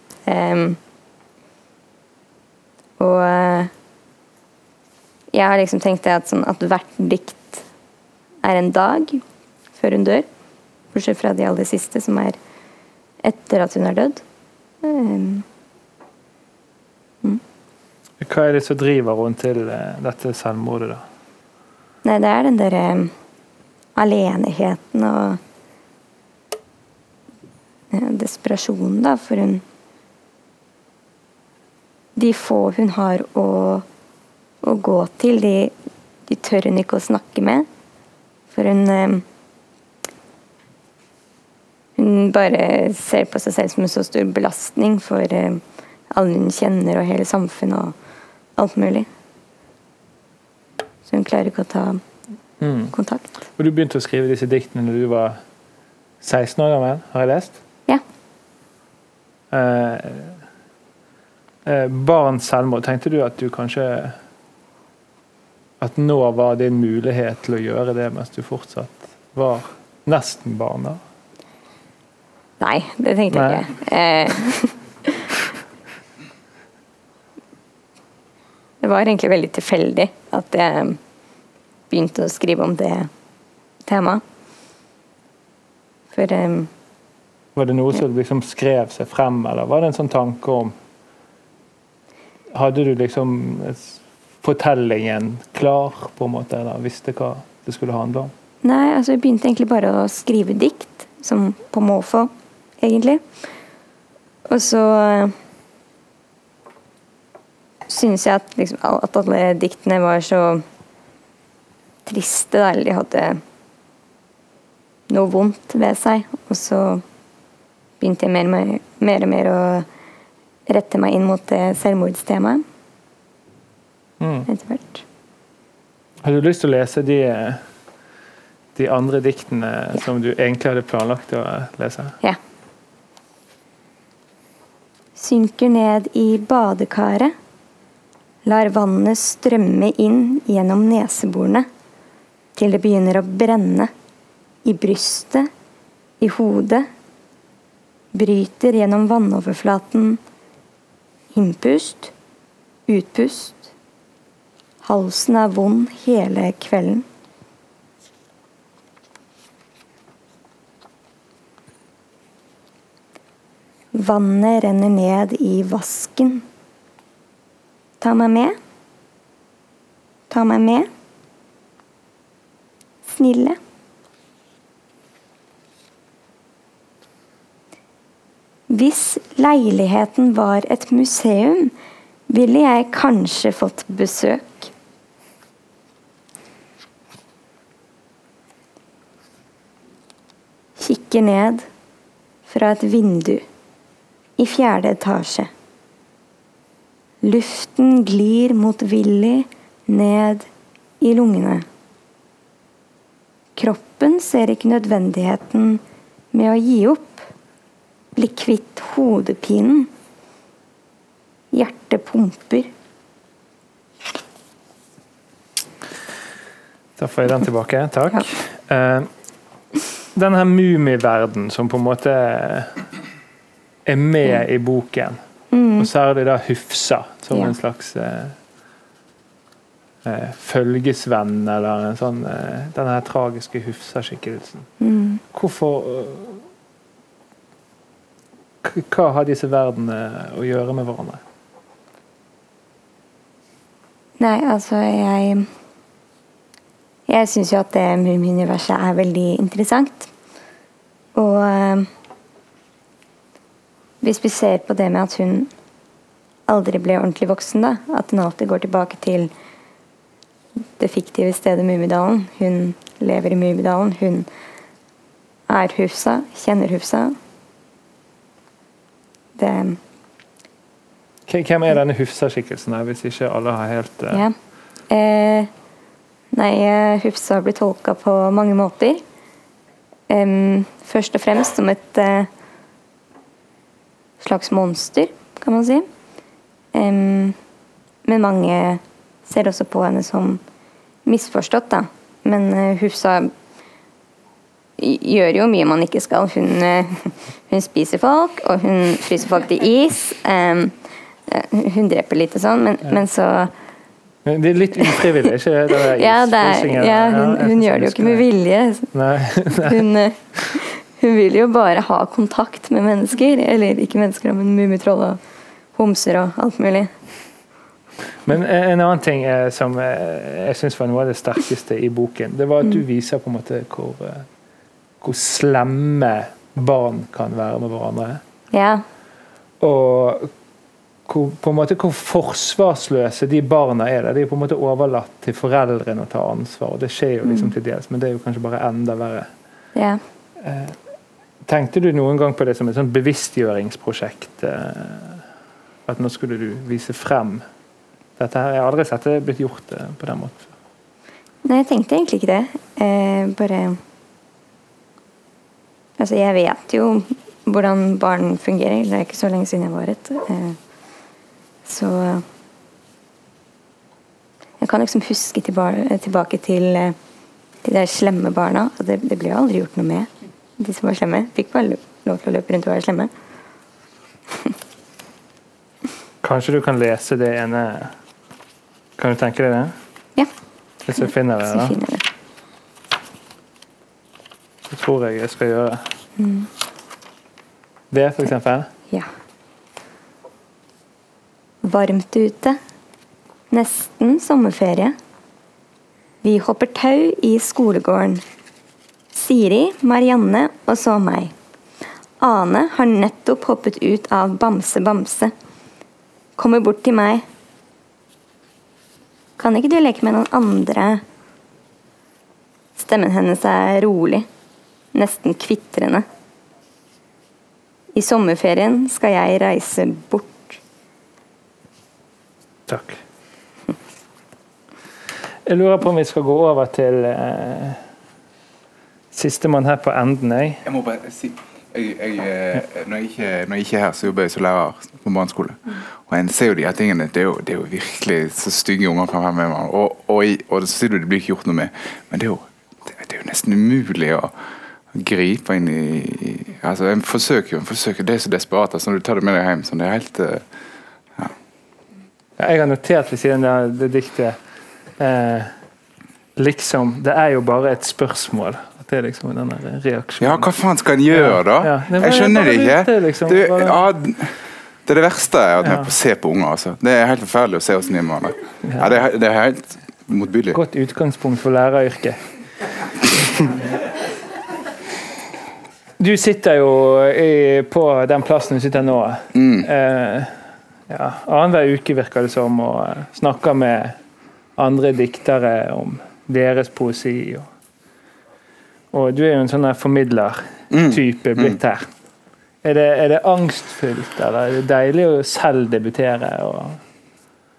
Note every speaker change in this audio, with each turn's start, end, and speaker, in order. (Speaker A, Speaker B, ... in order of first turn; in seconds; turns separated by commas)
Speaker A: 0.2-0.8, Speaker A: 3.0-3.7, Speaker A: 5.3-7.6, Speaker A: 8.4-9.2, Speaker A: 9.7-10.2, Speaker A: 10.9-12.4, Speaker A: 13.2-14.2, Speaker A: 14.8-15.4, Speaker B: 18.2-21.0, Speaker A: 22.0-23.1, Speaker A: 23.9-25.4, Speaker A: 27.9-29.6, Speaker A: 32.1-33.8, Speaker A: 34.6-35.7, Speaker A: 36.3-37.7, Speaker A: 38.5-39.2, Speaker A: 42.0-47.9, Speaker A: 48.5-49.1, Speaker A: 51.0-52.0, Speaker B: 52.6-52.9, Speaker A: 52.9-53.3, Speaker B: 53.6-55.4, Speaker B: 56.2-57.6, Speaker B: 59.5-60.4, Speaker B: 61.6-64.2, Speaker B: 65.8-71.0, Speaker A: 72.6-75.2, Speaker B: 73.3-73.7, Speaker A: 78.8-81.0, Speaker A: 81.9-83.1, Speaker A: 83.8-84.2, Speaker A: 86.1-86.7, Speaker B: 87.5-90.7, Speaker B: 92.5-98.3, Speaker A: 98.6-103.2, Speaker A: 104.5-105.3, Speaker A: 107.9-110.6, Speaker A: 112.0-113.4, Speaker A: 115.1-117.0, Speaker A: 118.0-119.9, Speaker A: 120.7-122.6, Speaker B: 124.2-124.5, Speaker A: 124.5-125.0, Speaker B: 126.2-127.6, Speaker B: 128.7-132.2, Speaker A: 135.2-137.3, Speaker A: 138.4-141.7, Speaker A: 142.6-143.9, Speaker A: 144.6-145.5, Speaker A: 146.2-146.9, Speaker A: 148.1-150.2, Speaker A: 151.3-152.1, Speaker A: 152.9-153.7, Speaker A: 154.8-157.0, Speaker A: 163.9-166.4, Speaker A: 168.0-168.6, Speaker A: 170.3-170.9, Speaker A: 173.1-173.6, Speaker A: 178.7-181.7, Speaker A: 182.3-184.7, Speaker A: 190.8-191.7, Speaker A: 192.5-193.4, Speaker A: 194.4-195.5, Speaker A: 197.2-200.5, Speaker A: 201.0-201.6, Speaker A: 203.6-205.8, Speaker A: 206.3-207.3, Speaker A: 208.1-209.9, Speaker A: 211.5-212.7, Speaker B: 217.0-219.1, Speaker B: 220.1-222.8, Speaker B: 223.8-225.2, Speaker A: 225.5-225.9, Speaker B: 225.8-228.4, Speaker B: 230.0-234.7, Speaker A: 234.8-235.2, Speaker B: 235.3-236.4, Speaker B: 238.6-241.2, Speaker A: 244.2-245.5, Speaker A: 247.1-250.1, Speaker A: 251.1-251.9, Speaker A: 254.0-255.5, Speaker A: 256.5-259.3, Speaker A: 260.8-264.3, Speaker A: 265.5-267.1, Speaker A: 269.4-269.8, Speaker B: 271.3-274.2, Speaker A: 274.9-275.5, Speaker A: 276.3-279.0, Speaker A: 280.1-282.3, Speaker A: 284.2-285.8, Speaker A: 286.7-287.4, Speaker A: 288.0-290.4, Speaker A: 291.1-293.3, Speaker A: 294.8-300.8, Speaker A: 301.3-303.5, Speaker B: 304.2-308.2, Speaker A: 305.9-308.9, Speaker B: 308.9-309.9, Speaker A: 309.6-315.2, Speaker A: 315.7-316.9, Speaker B: 318.2-324.3, Speaker B: 325.0-328.2, Speaker A: 328.5-328.8, Speaker B: 329.6-330.3, Speaker B: 331.1-339.3, Speaker A: 337.2-337.5, Speaker A: 339.7-340.0, Speaker B: 340.4-340.8, Speaker B: 341.4-345.2, Speaker B: 345.9-347.4, Speaker B: 348.2-350.5, Speaker A: 351.4-353.8, Speaker A: 356.0-360.6, Speaker A: 361.6-362.2, Speaker A: 364.6-366.9, Speaker A: 367.6-373.1, Speaker B: 376.2-377.9, Speaker B: 379.0-379.8, Speaker B: 380.8-381.8, Speaker A: 381.5-382.0, Speaker B: 384.7-385.8, Speaker A: 386.2-386.5, Speaker B: 387.9-388.7, Speaker A: 391.6-392.6, Speaker A: 393.5-394.9, Speaker A: 396.2-398.2, Speaker A: 399.1-401.3, Speaker A: 402.2-405.3, Speaker A: 406.4-407.2, Speaker A: 409.4-411.0, Speaker A: 412.8-414.3, Speaker A: 414.9-416.0, Speaker A: 417.9-420.6, Speaker B: 422.7-423.0, Speaker B: 425.4-427.8, Speaker B: 429.1-430.6, Speaker C: 430.6-444.3, Speaker C: 444.9-450.4, Speaker B: 452.4-454.4, Speaker B: 455.0-455.5, Speaker B: 456.4-460.5, Speaker C: 460.2-464.3, Speaker B: 461.1-463.8, Speaker C: 464.9-470.6, Speaker B: 465.6-465.9, Speaker B: 470.5-472.2, Speaker B: 476.0-484.0, Speaker C: 479.3-479.7, Speaker B: 484.6-487.5, Speaker B: 488.9-491.9, Speaker C: 490.7-491.6, Speaker B: 492.6-496.8